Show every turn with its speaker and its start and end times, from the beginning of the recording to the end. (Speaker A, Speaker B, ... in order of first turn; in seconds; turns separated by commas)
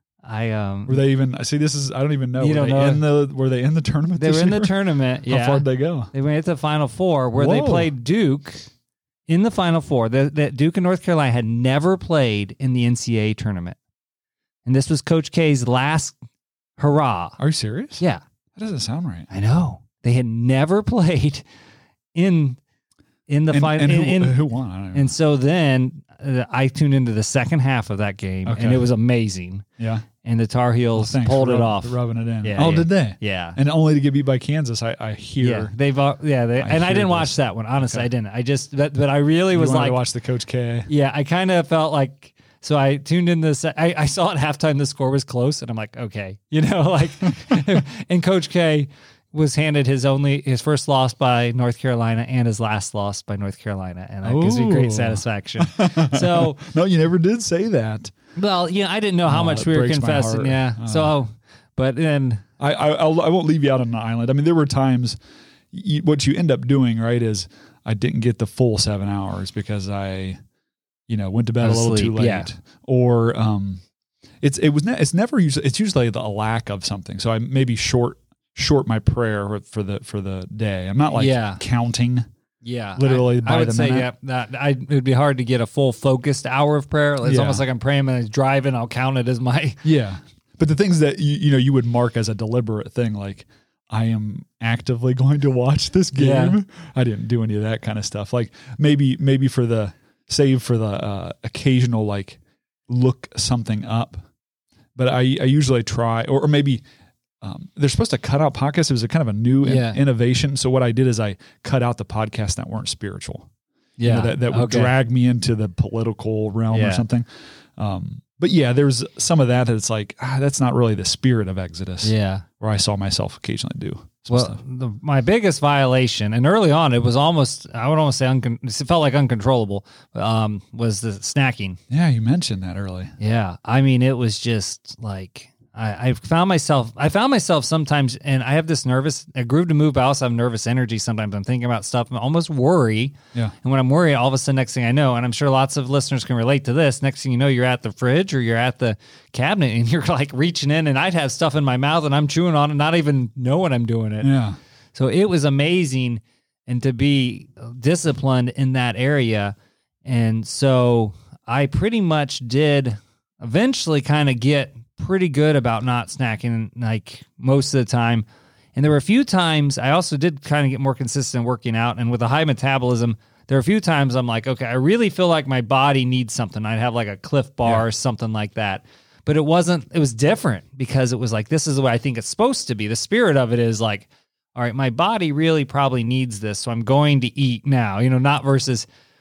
Speaker A: 0.2-1.0, Speaker B: 0.9-6.1, Speaker A: 2.4-3.0, Speaker A: 4.2-8.7, Speaker B: 7.4-7.9, Speaker A: 9.3-13.8, Speaker A: 14.7-16.2, Speaker A: 16.8-17.4, Speaker B: 17.4-18.0, Speaker B: 18.6-19.3, Speaker A: 19.3-21.5, Speaker A: 22.1-22.6, Speaker A: 23.3-24.4, Speaker B: 23.5-25.1, Speaker A: 24.9-29.6, Speaker B: 28.5-28.9, Speaker B: 29.8-30.1, Speaker A: 30.2-33.6, Speaker B: 31.0-35.7, Speaker A: 35.4-40.0, Speaker B: 36.6-38.1, Speaker B: 39.5-40.9, Speaker A: 40.9-56.6, Speaker B: 47.3-47.6, Speaker B: 54.2-58.1, Speaker A: 58.4-62.4, Speaker B: 59.3-61.1, Speaker B: 62.6-65.2, Speaker B: 65.7-70.4, Speaker B: 71.1-73.8, Speaker A: 71.6-72.5, Speaker B: 74.4-82.3, Speaker A: 81.1-81.6, Speaker A: 82.6-89.8, Speaker B: 83.0-84.1, Speaker B: 87.2-87.6, Speaker B: 89.8-104.2, Speaker A: 96.2-96.6, Speaker B: 105.0-106.8, Speaker B: 107.4-113.5, Speaker A: 109.6-110.0, Speaker A: 114.0-114.9, Speaker B: 114.0-117.3, Speaker A: 116.7-117.0, Speaker B: 117.8-124.6, Speaker A: 122.0-122.5, Speaker A: 124.3-131.8, Speaker B: 131.9-133.1, Speaker A: 133.2-154.3, Speaker B: 154.2-154.6, Speaker A: 154.9-188.9